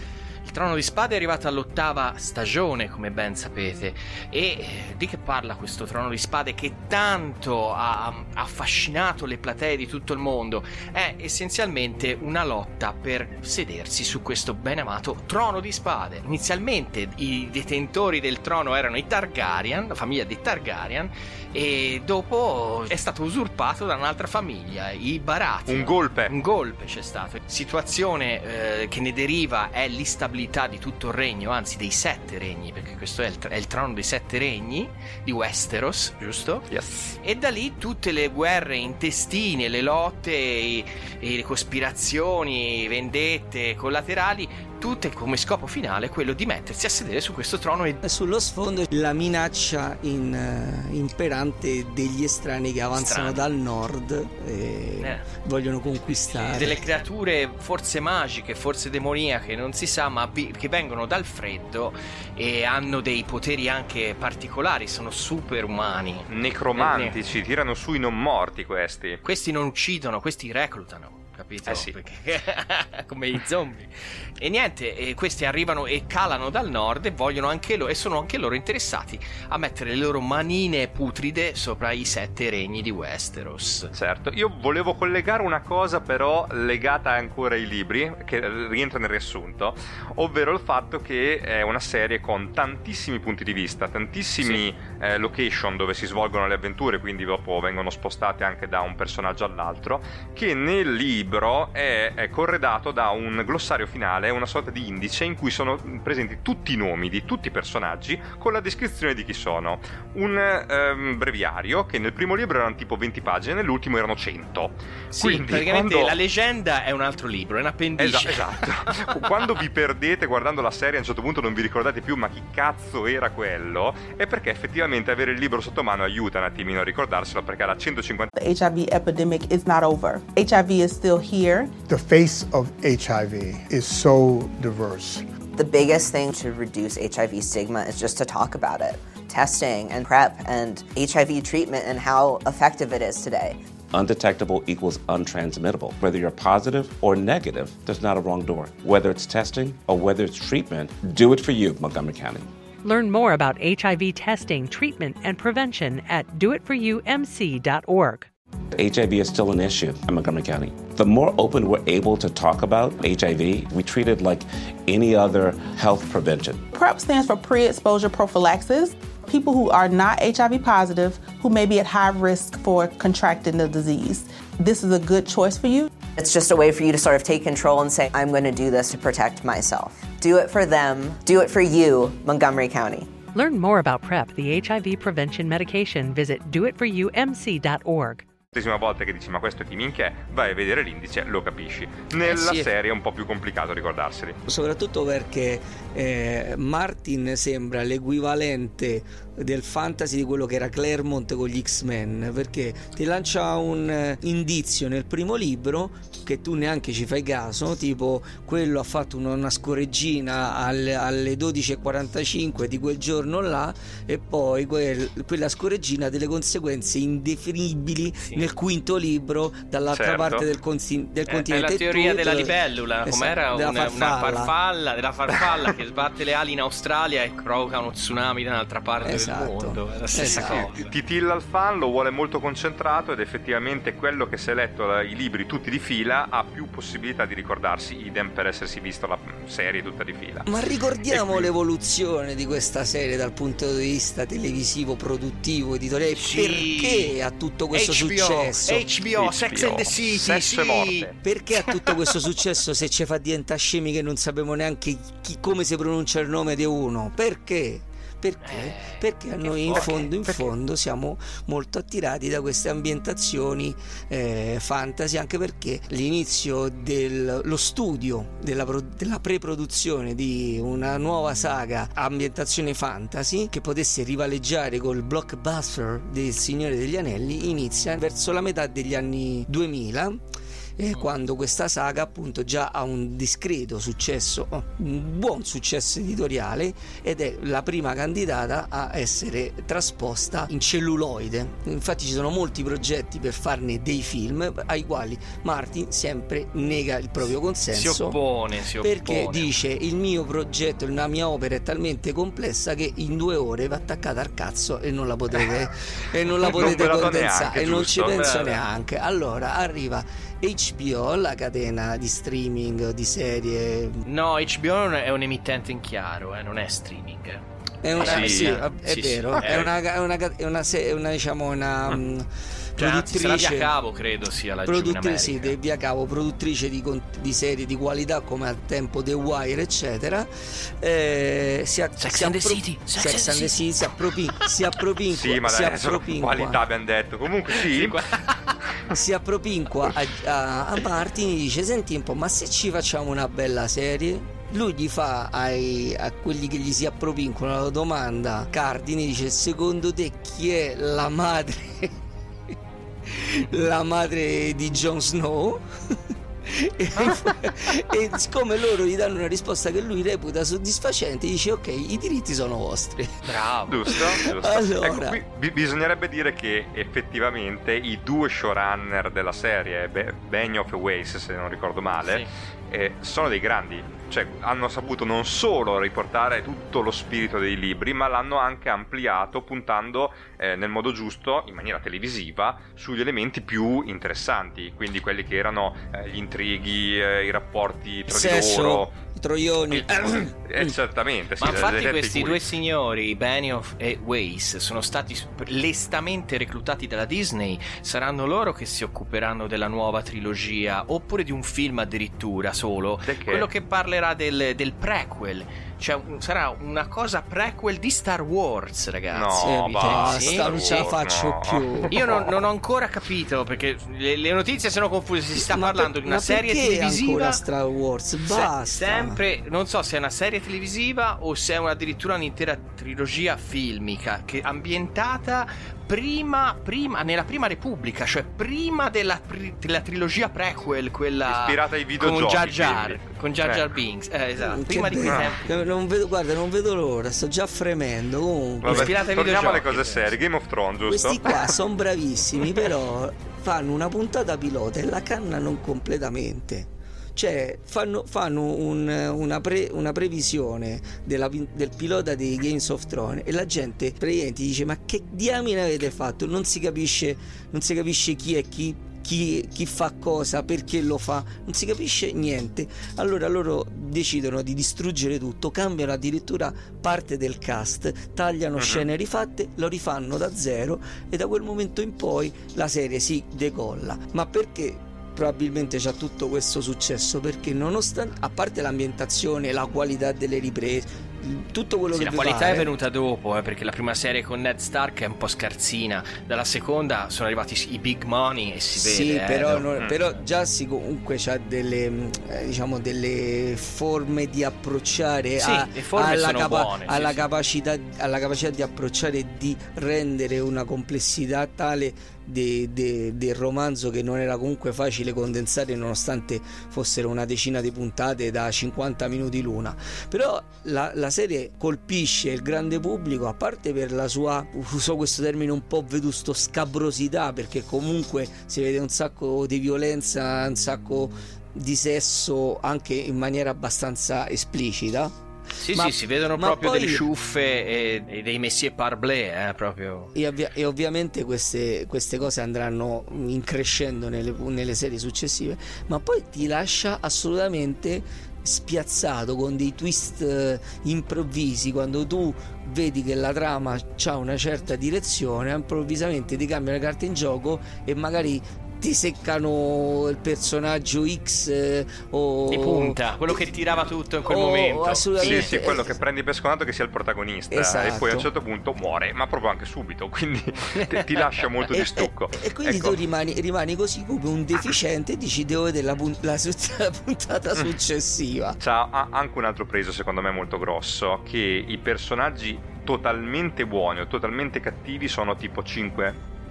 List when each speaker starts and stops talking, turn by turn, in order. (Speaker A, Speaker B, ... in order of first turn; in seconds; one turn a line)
Speaker A: 0.4-36.7
Speaker B: 25.7-26.3
Speaker B: 36.7-37.1
Speaker A: 37.2-48.0
Speaker C: 48.0-56.8
Speaker A: 52.9-53.5
Speaker A: 55.0-55.3
Speaker A: 56.4-67.2
Speaker B: 66.3-69.2
Speaker A: 69.2-83.9
Speaker B: 71.7-71.9
Speaker B: 83.9-116.2
Speaker A: 115.1-118.6
Speaker B: 118.0-128.3
Speaker D: 128.3-131.8
Speaker E: 131.8-135.2
Speaker F: 135.6-143.6
Speaker G: 143.9-152.5
Speaker H: 152.8-158.3
Speaker G: 158.8-166.7
Speaker D: 166.7-175.9
Speaker F: 176.1-183.2
Speaker H: 183.3-188.2
Speaker B: 188.5-194.4
Speaker C: 192.2-192.7
Speaker C: 194.5-224.5
Speaker B: 219.9-220.5
Speaker A: 221.3-230.9
Speaker C: 229.0-230.7
Speaker B: 230.3-240.5
Speaker C: 240.5-248.9
Speaker B: 241.1-241.5
Speaker A: 246.2-247.2
Speaker A: 247.7-251.1
Speaker B: 249.2-251.2
Speaker C: 251.2-280.2
Speaker A: 251.7-252.1
Speaker A: 258.4-260.5
Speaker C: 280.8-298.2
Speaker A: 297.7-299.5
Speaker C: 298.8-314.0
Speaker B: 306.4-308.4
Speaker A: 308.2-308.6
Speaker A: 314.1-317.4
Speaker C: 317.8-323.7
Speaker A: 318.0-319.7
Speaker B: 318.0-318.6
Speaker A: 322.8-325.6
Speaker C: 324.7-336.6
Speaker A: 332.0-334.5
Speaker B: 335.1-338.2
Speaker A: 337.5-338.6
Speaker C: 338.9-352.0
Speaker C: 353.1-363.1
Speaker A: 363.3-364.0
Speaker B: 363.7-388.9
Speaker C: 363.9-365.2
Speaker C: 388.1-390.8
Speaker B: 390.4-392.4
Speaker A: 391.4-410.9
Speaker B: 403.1-403.5
Speaker B: 409.1-412.3
Speaker C: 409.4-412.0
Speaker A: 411.9-417.4
Speaker C: 415.4-419.2
Speaker A: 418.3-435.6
Speaker B: 431.3-433.7
Speaker C: 434.4-438.9
Speaker B: 438.6-441.5
Speaker A: 438.7-440.2
Speaker C: 440.9-482.7
Speaker B: 468.6-468.9
Speaker A: 481.9-489.7
Speaker C: 488.8-525.1
Speaker B: 489.8-490.0
Speaker A: 495.4-497.2
Speaker A: 525.6-530.1
Speaker C: 525.7-527.1
Speaker C: 530.1-553.5
Speaker A: 552.5-555.6
Speaker C: 554.2-556.0
Speaker B: 555.2-563.0
Speaker C: 557.5-558.3
Speaker A: 560.7-561.4
Speaker C: 561.8-568.6
Speaker B: 568.6-576.2